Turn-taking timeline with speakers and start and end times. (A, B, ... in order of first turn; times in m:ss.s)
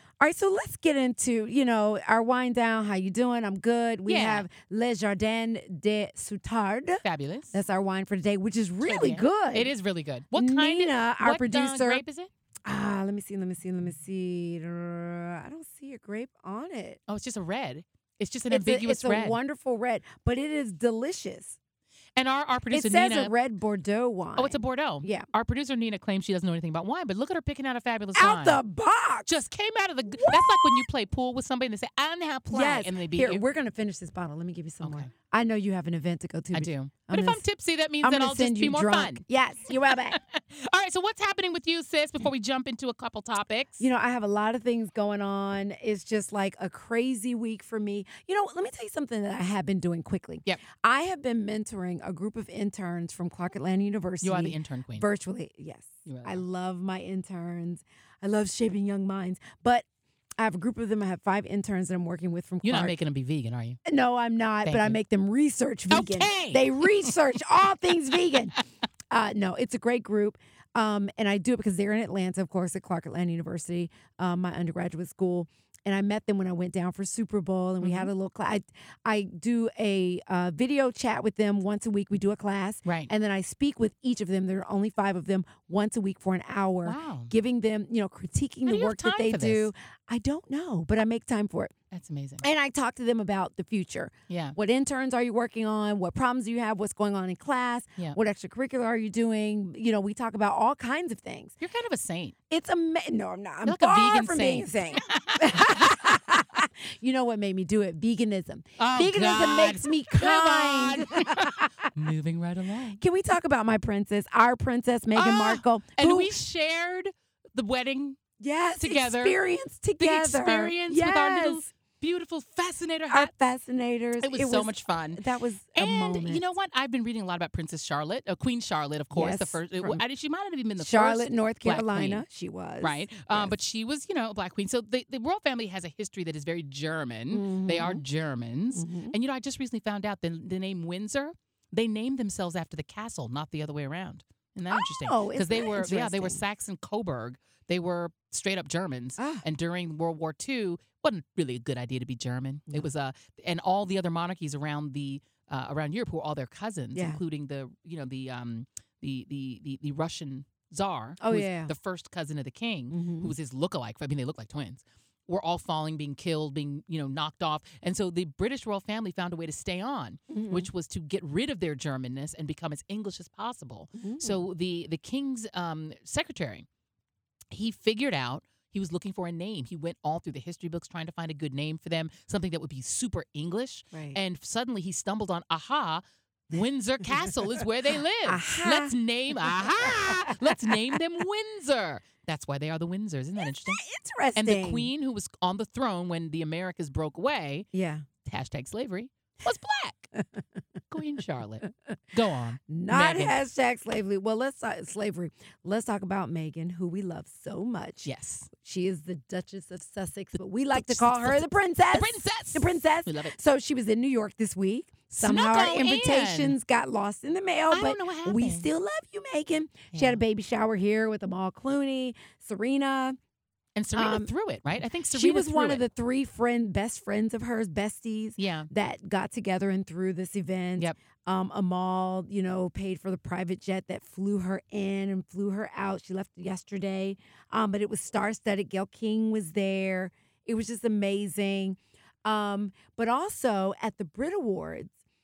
0:00.2-0:09.7 A
0:04.1-0:04.5 B
0:07.0-0:07.6 B
0:08.8-0:12.3 B
0:10.3-0:12.0 A
0:12.7-0:17.0 A
0:17.1-0:19.4 B
0:18.5-0:21.6 A
0:22.2-0:23.3 B
0:22.7-0:25.3 A
0:24.4-0:28.6 B
0:28.2-0:29.3 A
0:29.3-0:33.4 B
0:30.2-0:30.8 A
0:32.5-0:37.4 A
0:34.8-0:35.1 B
0:36.5-0:43.9 B
0:38.0-0:40.2 A
0:43.8-0:59.8 A
0:54.2-0:55.1 B
0:56.1-0:56.4 B
1:00.4-1:03.0 A
1:02.6-1:03.8 B
1:03.8-1:08.6 A
1:04.6-1:05.0 B
1:05.9-1:07.2 B
1:09.1-1:31.7 A
1:17.8-1:18.1 B
1:22.9-1:23.1 B
1:26.8-1:27.3 B
1:28.6-1:29.7 B
1:31.9-1:32.4 B
1:32.4-1:41.6 A
1:34.3-1:34.6 B
1:41.6-1:42.4 B
1:42.5-1:51.9 A
1:43.6-1:46.2 B
1:48.8-1:53.0 B
1:53.0-1:56.3 A
1:55.2-1:58.2 B
1:58.4-2:01.7 A
1:58.8-1:59.4 B
2:00.0-2:03.3 B
2:03.1-2:06.4 A
2:04.2-2:05.2 B
2:05.8-2:12.2 B
2:09.1-2:10.0 A
2:10.8-2:13.5 A
2:12.8-2:56.7 B
2:17.3-2:18.0 A
2:18.7-2:19.2 A
2:24.7-2:26.4 A
2:29.2-2:29.4 A
2:36.9-2:37.2 A
2:41.2-2:41.7 A
2:42.9-2:43.3 A
2:50.3-2:50.7 A
2:54.0-2:54.4 A
2:57.5-3:13.8 B
3:03.9-3:04.2 A
3:08.2-3:08.9 A
3:10.0-3:10.8 A
3:13.7-3:14.9 A
3:14.4-3:17.7 B
3:17.7-3:18.0 A
3:18.2-3:20.1 B
3:20.9-3:23.4 B
3:22.7-3:43.2 A
3:28.0-3:28.5 B
3:30.7-3:33.4 B
3:35.1-3:36.6 B
3:37.7-3:38.7 B
3:39.9-3:40.2 B
3:43.8-3:45.8 B
3:44.0-3:44.3 A
3:45.1-4:04.9 A
3:48.4-3:48.7 B